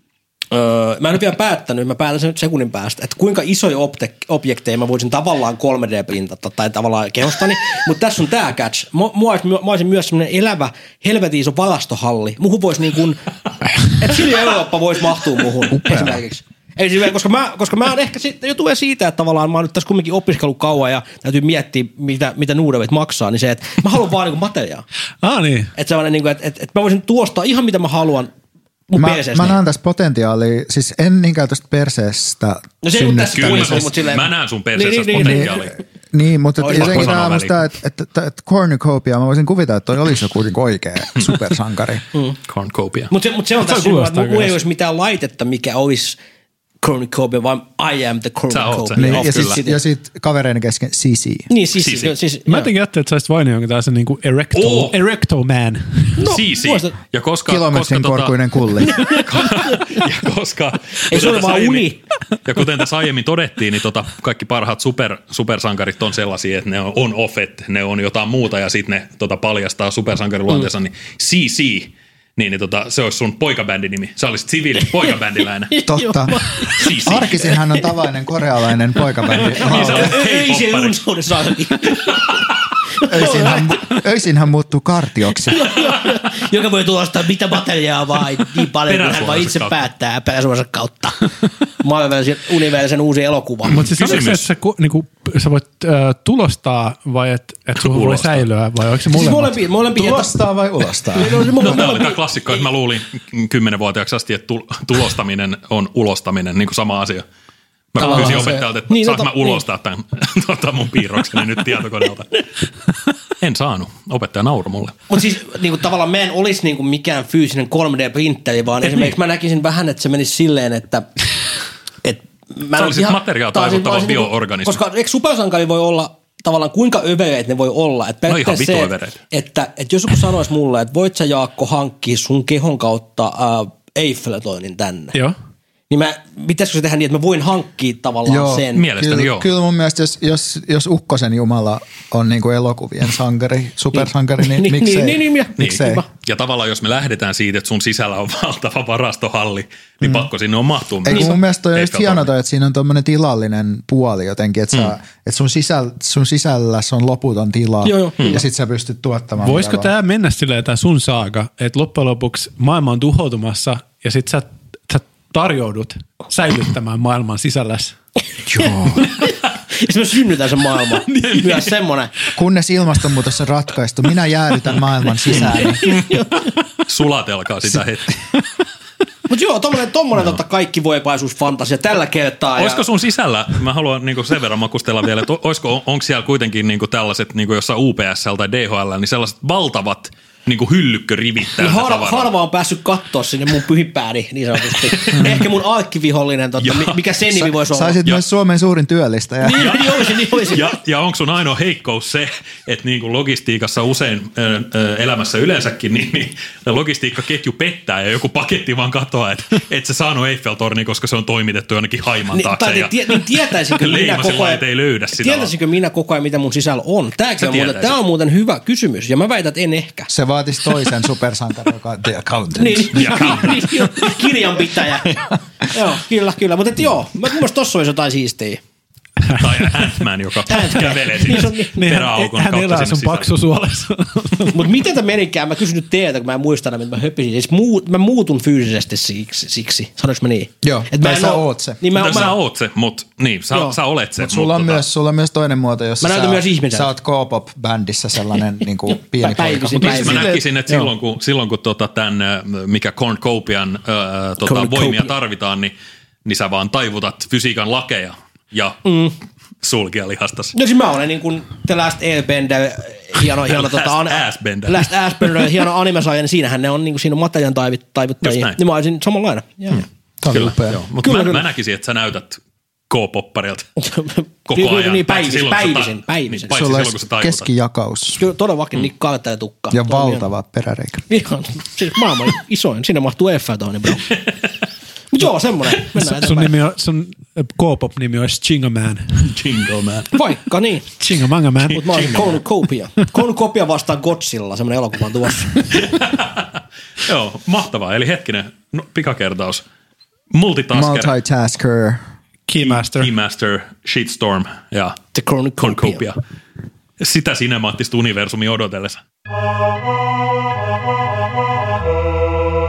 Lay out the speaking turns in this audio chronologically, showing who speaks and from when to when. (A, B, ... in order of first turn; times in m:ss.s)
0:00.5-0:13.2 A
0:13.8-0:24.8 A
0:15.7-0:16.2 B
0:25.2-0:25.7 C
0:25.8-0:28.3 A
0:28.9-0:29.6 A
0:29.0-0:33.9 B
0:32.8-0:35.6 A
0:33.3-0:35.7 D
0:35.1-0:42.0 B
0:36.6-0:37.1 A
0:36.7-0:37.6 D
0:42.5-0:43.1 D
0:43.1-0:46.2 A
0:43.6-0:44.6 C
0:46.8-0:49.8 A
0:48.5-0:49.6 D
0:49.0-0:51.5 B
0:51.5-0:52.7 A
0:51.8-0:52.1 D
0:52.5-0:56.2 C
0:54.5-0:55.0 D
0:56.2-0:56.9 A
0:56.2-0:58.4 D
0:57.5-0:59.1 B
0:58.8-1:00.0 A
0:59.1-1:01.9 D
1:01.1-1:02.0 A
1:02.4-1:15.8 D
1:15.7-1:17.9 A
1:15.9-1:16.4 B
1:16.7-1:17.5 D
1:17.0-1:20.2 B
1:19.3-1:22.4 A
1:19.6-1:21.0 D
1:23.0-1:23.8 A
1:23.1-1:25.6 B
1:25.4-1:31.3 A
1:28.9-1:29.8 D
1:31.8-1:34.3 A
1:33.7-1:34.5 D
1:33.7-1:39.6 C
1:37.8-1:38.5 D
1:39.1-1:40.4 A
1:39.9-1:41.8 B
1:41.1-1:42.6 A
1:41.6-1:47.2 D
1:47.9-1:52.3 D
1:48.0-1:49.6 A
1:53.4-1:55.0 D
1:55.1-2:01.1 A
1:58.8-1:59.1 D
2:02.0-2:15.1 A
2:02.7-2:04.8 D
2:08.3-2:09.2 D
2:15.9-2:18.8 A
2:18.3-2:26.0 B
2:18.7-2:19.5 D
2:24.0-2:26.0 A
2:25.6-2:32.3 D
2:30.0-2:30.3 B
2:31.0-2:39.9 B
2:31.1-2:31.4 A
2:37.8-2:38.4 A
2:39.4-2:48.0 C
2:48.5-2:49.1 B
2:48.6-2:52.1 A
2:51.1-2:51.7 D
2:52.3-2:55.8 B
2:55.3-2:56.1 D
2:55.5-2:56.5 A
2:56.9-2:58.2 D
2:59.3-3:02.8 A
3:02.6-3:12.3 D
3:11.6-3:18.0 A
3:15.0-3:15.4 D
3:16.6-3:17.0 D
3:17.6-3:19.9 B
3:19.4-3:20.7 A
3:19.6-3:35.5 D
3:32.3-3:40.1 A
3:37.4-3:38.0 D
3:40.1-3:43.4 B
3:42.6-3:48.6 A
3:42.9-3:43.7 D
3:49.4-3:53.3 D
3:50.5-3:51.8 A
3:51.7-3:54.7 C
3:54.5-4:02.4 A
4:00.6-4:01.8 B
4:01.9-4:04.8 D
4:03.5-4:03.8 A
4:04.2-4:10.3 B
4:06.0-4:06.9 A
4:09.2-4:10.9 A
4:09.8-4:15.7 D
4:14.4-4:15.1 A
4:16.2-4:18.8 D
4:18.9-4:19.1 A
4:19.6-4:20.6 D
4:20.6-4:29.8 A
4:23.5-4:25.5 D
4:28.2-4:28.6 D
4:29.7-4:33.7 D
4:30.2-4:30.8 B
4:31.0-4:31.4 A
4:33.8-4:36.6 A
4:34.5-4:37.5 D
4:36.5-4:38.2 B
4:38.2-4:40.2 A
4:39.7-4:41.1 B
4:41.1-4:44.2 A
4:45.1-4:46.6 A
4:46.0-4:49.3 C
4:49.2-4:50.1 D
4:50.1-4:50.9 A
4:51.0-4:51.9 C
4:51.7-4:55.7 A
4:51.9-4:52.4 D
4:55.8-4:56.5 D
4:57.0-4:59.6 D
5:00.3-5:01.1 D
5:00.7-5:02.0 B
5:02.5-5:03.1 C
5:02.6-5:05.0 D
5:05.1-5:06.0 A
5:05.6-5:06.2 D
5:07.0-5:09.0 D